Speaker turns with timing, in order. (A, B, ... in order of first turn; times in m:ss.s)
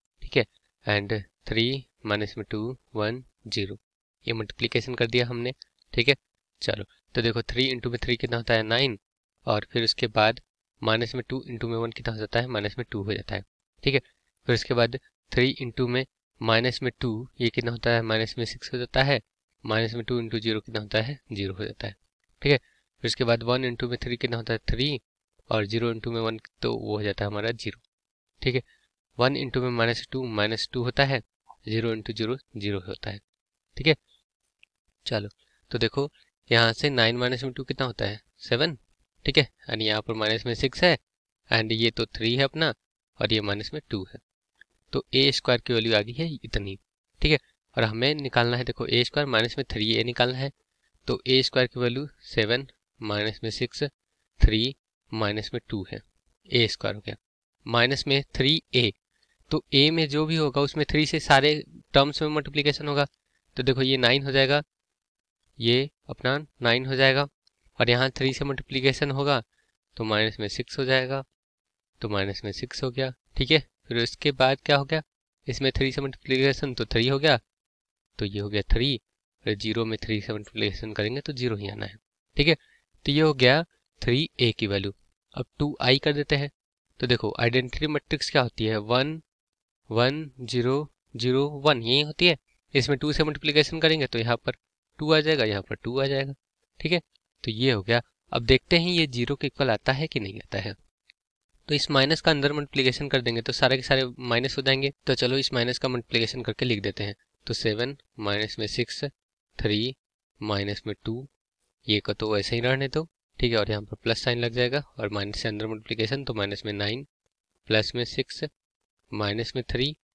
0:00.2-0:27.8 A
0:29.2-0:33.2 A
0:35.0-0:41.0 A
0:41.5-0:44.2 A
0:44.9-0:50.5 A
0:51.0-0:53.9 A
0:54.4-0:58.9 A
0:59.5-1:04.6 A
1:05.6-1:09.4 A
1:10.0-1:11.2 A
1:12.0-1:17.4 A
1:18.2-1:29.2 A
1:29.9-1:40.7 A
1:41.7-1:51.3 A
1:51.9-1:57.0 A
1:57.7-1:58.5 A
1:59.1-2:00.0 A